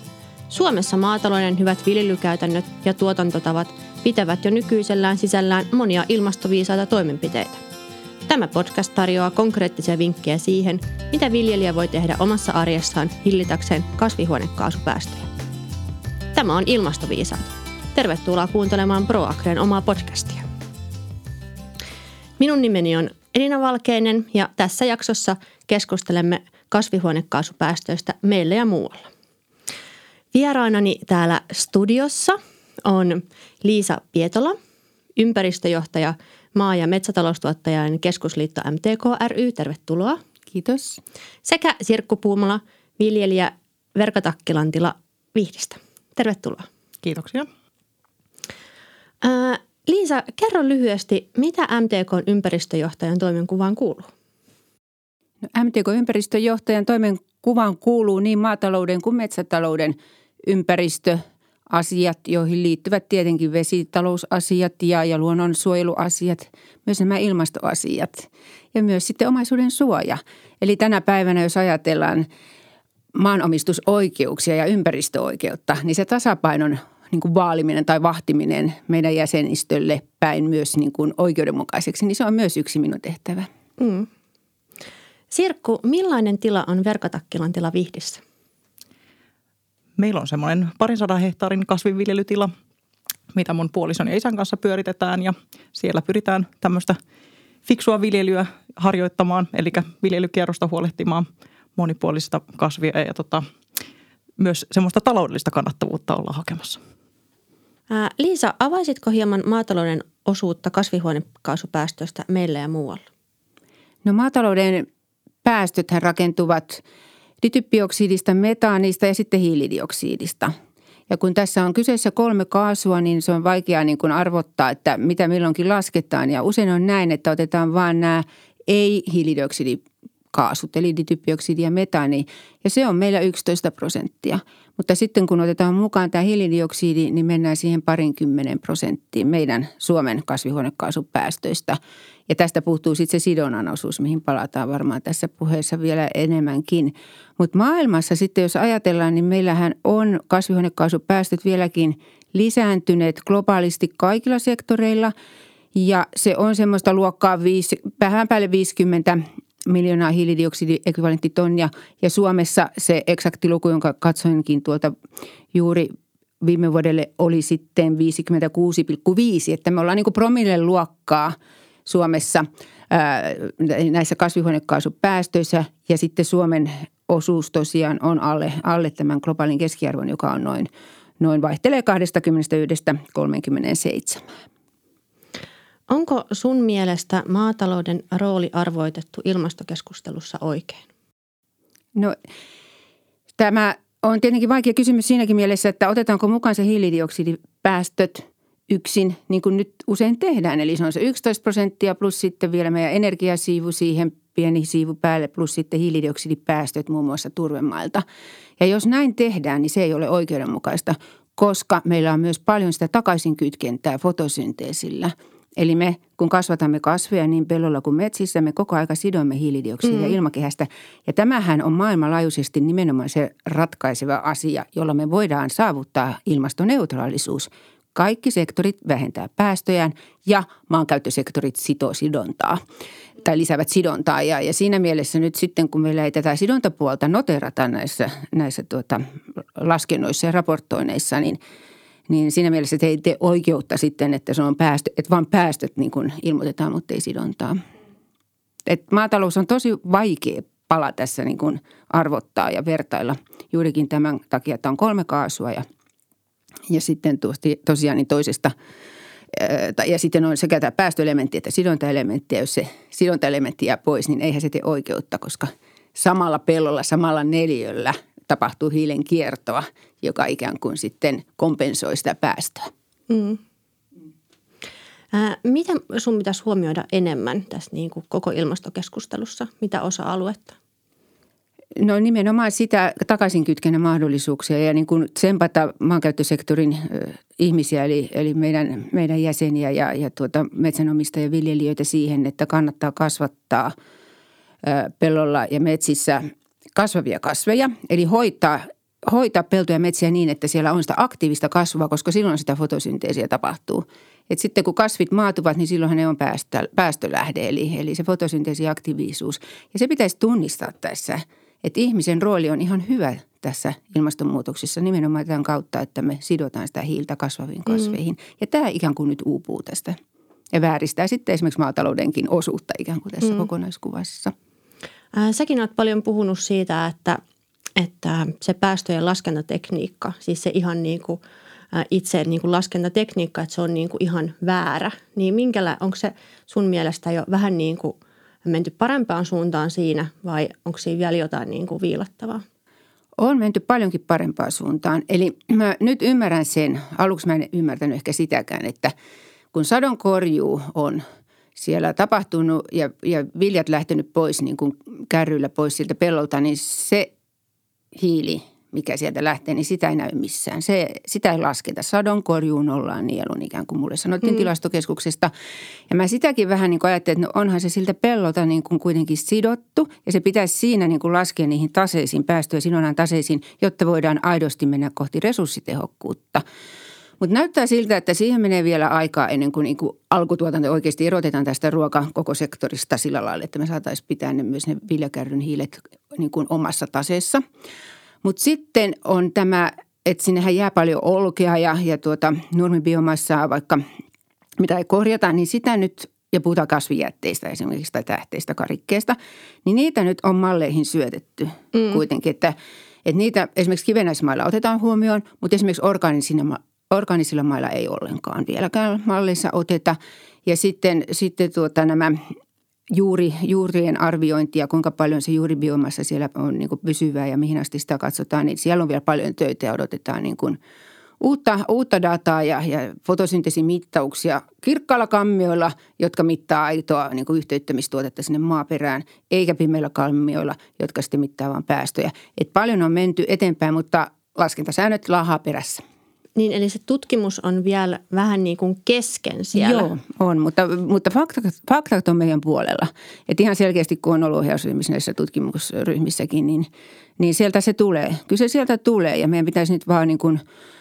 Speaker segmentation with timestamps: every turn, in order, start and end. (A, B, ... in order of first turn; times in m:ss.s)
0:00.5-0:07.6 A
0:08.3-0:15.3 A
0:16.3-0:20.5 A
0:22.4-0:29.1 A
0:30.3-0:34.6 A
0:35.2-0:40.2 A
0:40.5-0:41.0 B
0:41.4-0:46.7 A
0:47.0-0:47.5 C
0:49.2-0:54.1 A
0:55.5-1:12.3 B
1:13.1-1:23.5 B
1:23.8-1:24.1 A
1:25.3-1:28.2 A
1:30.0-1:32.5 C
1:33.3-1:37.0 C
1:37.7-1:43.4 C
1:44.4-1:46.8 C
1:47.9-1:53.0 A
1:54.0-1:54.9 B
1:55.4-1:56.8 B
1:57.4-2:00.5 B
2:01.1-2:35.1 B
2:35.7-2:44.9 B
2:45.5-3:04.2 B
3:05.9-3:10.8 A
3:13.4-3:28.0 B
3:28.6-3:52.6 B
3:39.9-3:40.2 A
3:53.2-4:01.4 B
4:02.1-4:07.6 B
4:08.7-4:15.6 B
4:16.7-4:18.5 B
4:19.3-4:32.7 B
4:33.1-4:33.4 A
4:35.1-4:40.6 A
4:41.8-4:53.7 B
4:54.6-5:20.0 B
5:20.5-5:24.3 B
5:25.1-5:27.2 A
5:27.8-5:31.2 A
5:31.7-5:42.4 A
5:43.2-5:48.9 B
5:49.5-5:51.0 B
5:51.6-5:57.1 B
5:57.9-6:05.3 B
6:05.9-6:16.4 B
6:17.2-6:27.4 B
6:28.2-6:33.8 B
6:34.6-6:52.2 B
6:41.7-6:42.0 A
6:52.9-7:00.6 B
7:01.2-7:15.8 B
7:16.4-7:19.9 A
7:19.5-7:30.4 B